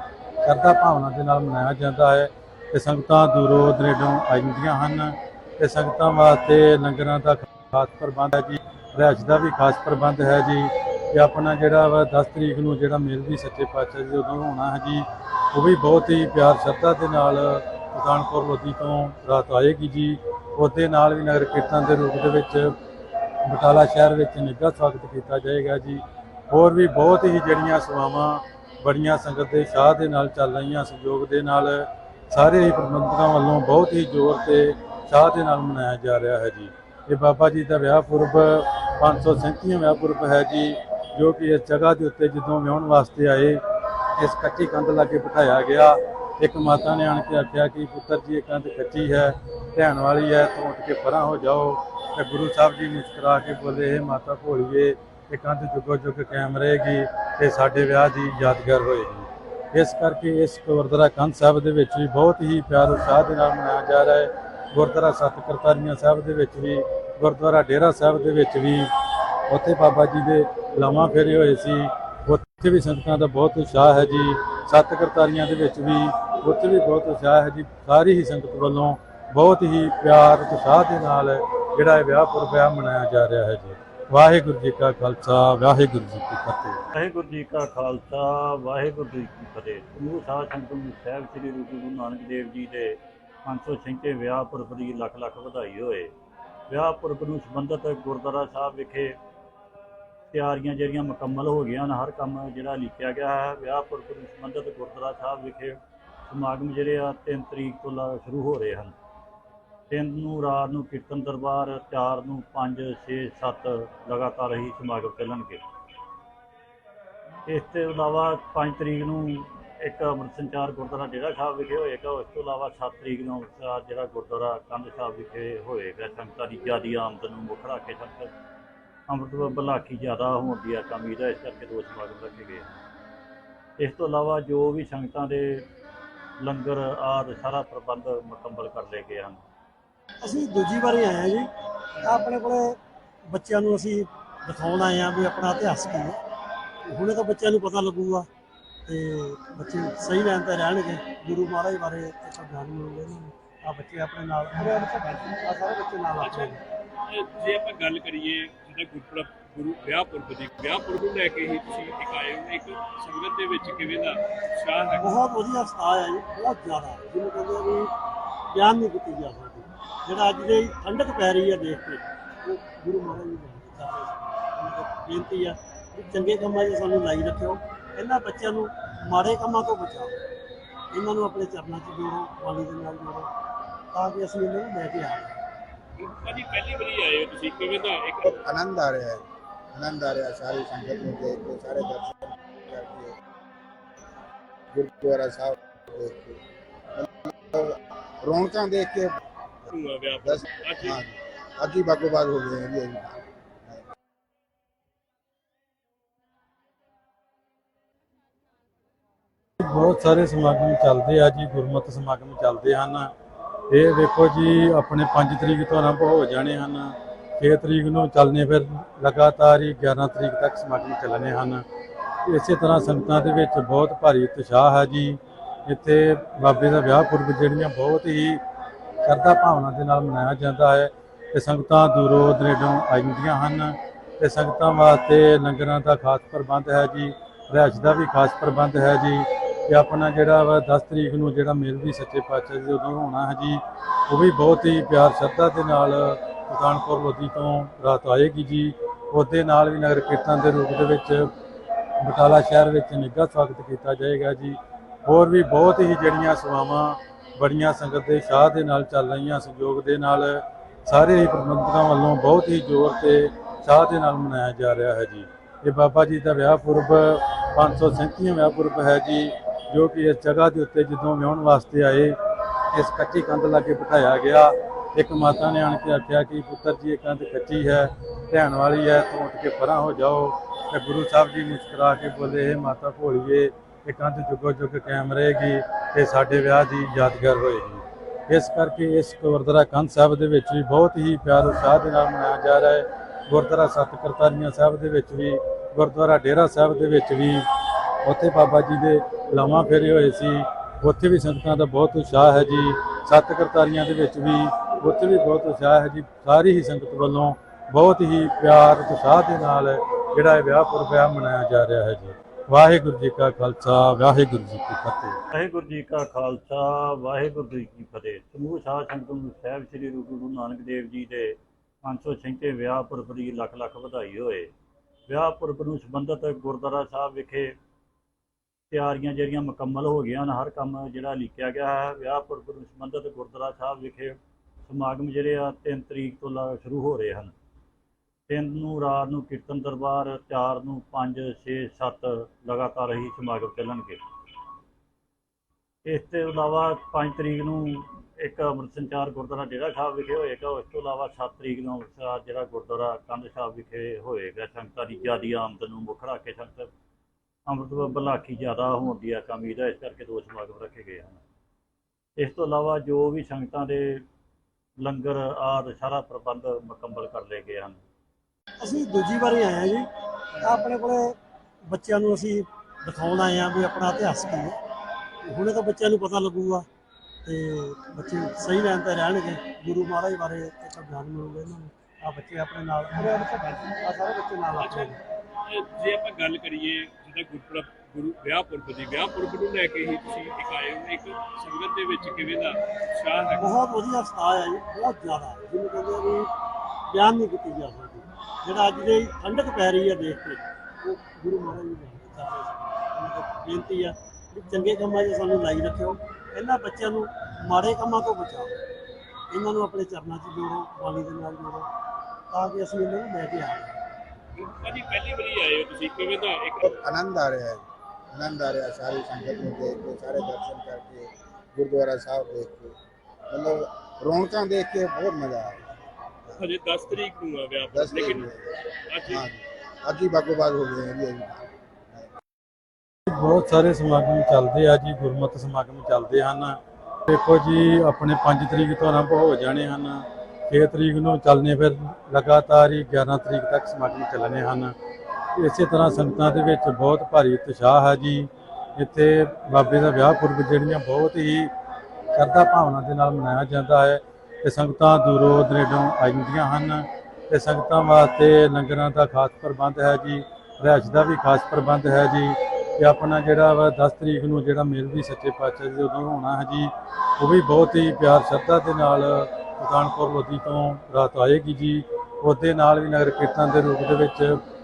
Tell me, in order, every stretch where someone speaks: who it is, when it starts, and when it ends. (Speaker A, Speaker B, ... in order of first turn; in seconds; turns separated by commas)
Speaker A: 0.4-22.7, Speaker A: 23.4-43.6, Speaker A: 44.2-68.9, Speaker A: 69.5-86.8, Speaker B: 86.9-96.1, Speaker B: 96.7-99.1, Speaker B: 100.3-108.9, Speaker B: 109.9-115.6, Speaker B: 117.5-128.3, Speaker B: 129.1-132.8, Speaker B: 133.8-135.7, Speaker B: 136.4-139.4, Speaker C: 140.2-141.5, Speaker C: 142.0-142.8, Speaker C: 143.3-146.2, Speaker C: 146.8-148.3, Speaker C: 148.8-156.6, Speaker D: 156.2-156.5, Speaker D: 157.0-165.1, Speaker C: 165.0-167.9, Speaker C: 168.5-180.2, Speaker C: 180.9-183.3, Speaker C: 183.9-185.3, Speaker D: 186.0-188.4, Speaker E: 188.2-193.2, Speaker E: 194.7-196.4, Speaker E: 196.9-199.2, Speaker D: 199.7-201.0, Speaker E: 200.2-203.8, Speaker A: 209.6-213.1, Speaker A: 213.7-221.6, Speaker A: 222.2-228.4, Speaker A: 229.0-251.3, Speaker A: 252.0-272.2, Speaker A: 272.7-297.5, Speaker A: 298.0-315.2, Speaker B: 315.3-324.5, Speaker B: 325.1-327.5, Speaker B: 328.7-337.3, Speaker B: 338.3-344.0, Speaker B: 345.8-356.7, Speaker B: 357.5-361.2, Speaker B: 362.2-364.0, Speaker B: 364.8-367.8, Speaker C: 368.6-369.9, Speaker C: 370.4-371.1, Speaker C: 371.7-374.6, Speaker C: 375.2-376.6, Speaker C: 377.2-385.0, Speaker D: 384.6-384.9, Speaker D: 385.4-393.5, Speaker C: 393.4-396.3, Speaker C: 396.9-408.6, Speaker C: 409.3-411.7, Speaker C: 412.3-413.7, Speaker D: 414.4-416.7, Speaker E: 416.6-422.7, Speaker E: 423.3-425.7, Speaker D: 426.4-428.3, Speaker E: 427.7-428.5, Speaker D: 428.9-429.2, Speaker E: 429.1-432.1, Speaker A: 433.1-444.7, Speaker A: 445.3-451.5, Speaker A: 452.1-474.4